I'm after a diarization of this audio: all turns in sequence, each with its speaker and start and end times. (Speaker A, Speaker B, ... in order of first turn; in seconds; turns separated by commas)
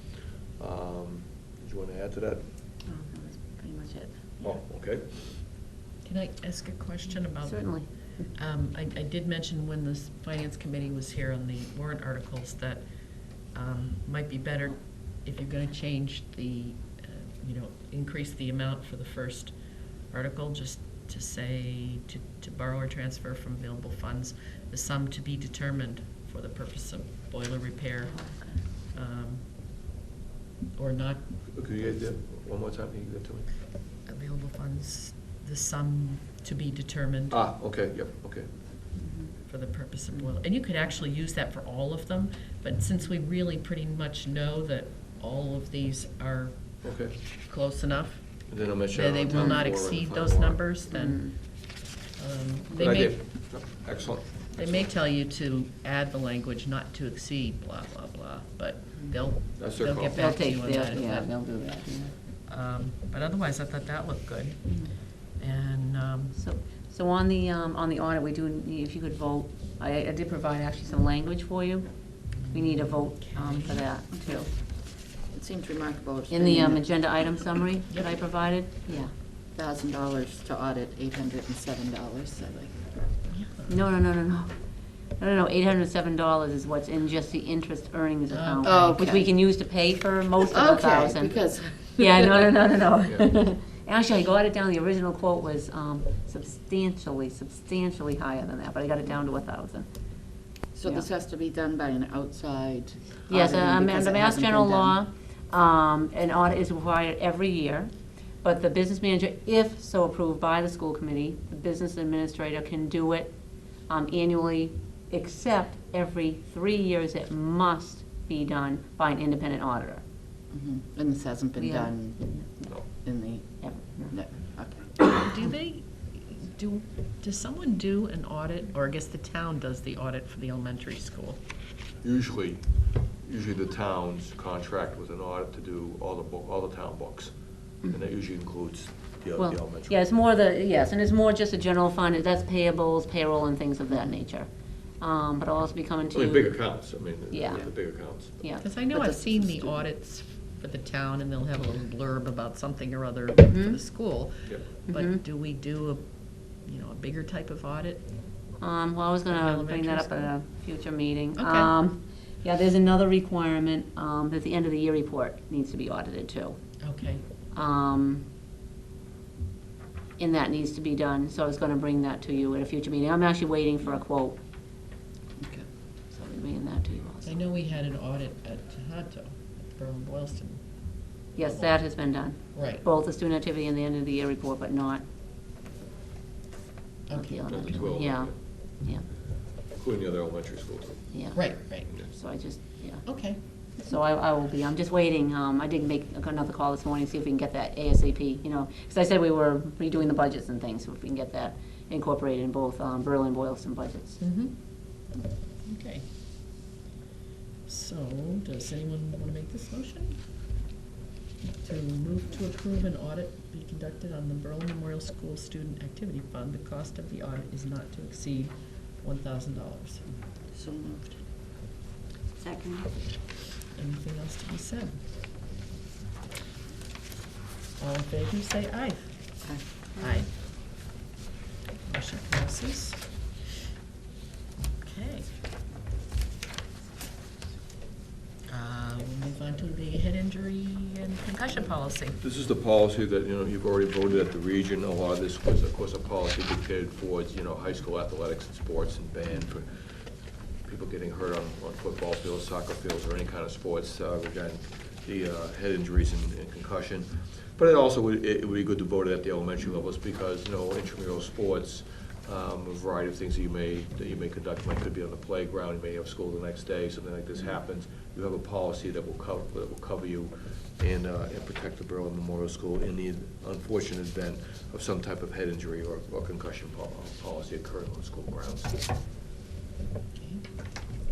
Speaker A: 0.6-2.4, Speaker B: 2.9-4.4, Speaker A: 4.4-5.4, Speaker C: 6.0-29.6, Speaker D: 7.4-8.3, Speaker D: 28.0-28.6, Speaker C: 30.8-31.2, Speaker A: 31.5-33.5, Speaker C: 34.0-37.4, Speaker A: 37.3-38.5, Speaker C: 39.5-53.5, Speaker A: 46.8-47.2, Speaker A: 48.5-50.6, Speaker D: 49.3-49.6, Speaker D: 50.9-51.4, Speaker A: 52.7-54.9, Speaker C: 54.5-61.3, Speaker A: 59.6-60.4, Speaker D: 60.1-62.1, Speaker C: 62.5-66.3, Speaker D: 66.3-74.5, Speaker C: 72.4-73.8, Speaker B: 74.1-77.2, Speaker D: 76.3-79.1, Speaker C: 77.9-78.2, Speaker B: 79.5-83.0, Speaker C: 83.3-83.8, Speaker D: 83.7-84.6, Speaker D: 85.1-99.9, Speaker C: 88.3-89.0, Speaker B: 88.6-89.3, Speaker B: 90.5-92.5, Speaker B: 100.7-105.0, Speaker D: 103.3-113.3, Speaker D: 113.8-120.0, Speaker B: 120.5-125.2, Speaker D: 121.6-123.0, Speaker D: 123.6-124.1, Speaker C: 125.1-131.4, Speaker A: 132.0-139.9, Speaker D: 139.4-144.5, Speaker D: 145.0-146.6, Speaker A: 146.1-148.3, Speaker D: 147.3-148.6, Speaker C: 148.6-158.3, Speaker B: 148.9-149.8, Speaker D: 153.5-153.8, Speaker D: 154.9-155.2, Speaker D: 158.6-166.6, Speaker C: 159.3-160.3, Speaker C: 161.4-161.7, Speaker C: 166.8-167.2, Speaker D: 167.5-168.2, Speaker D: 170.2-174.4, Speaker B: 175.4-175.7, Speaker D: 176.1-177.5, Speaker C: 177.2-180.6, Speaker D: 181.3-185.0, Speaker C: 182.5-182.8, Speaker C: 187.1-187.9, Speaker D: 187.1-189.1, Speaker A: 187.5-188.3, Speaker A: 189.7-191.0, Speaker D: 191.1-204.2, Speaker C: 191.3-191.9, Speaker C: 193.0-193.4, Speaker C: 204.2-205.0, Speaker C: 205.6-206.1, Speaker C: 207.7-210.2, Speaker C: 211.6-220.0, Speaker B: 220.5-221.2, Speaker B: 222.4-222.9, Speaker C: 223.7-225.0, Speaker C: 227.8-229.4, Speaker C: 230.0-230.3, Speaker C: 231.8-233.1, Speaker C: 234.8-235.3, Speaker C: 238.5-242.2, Speaker A: 242.2-249.9, Speaker A: 250.6-278.8, Speaker C: 280.1-280.4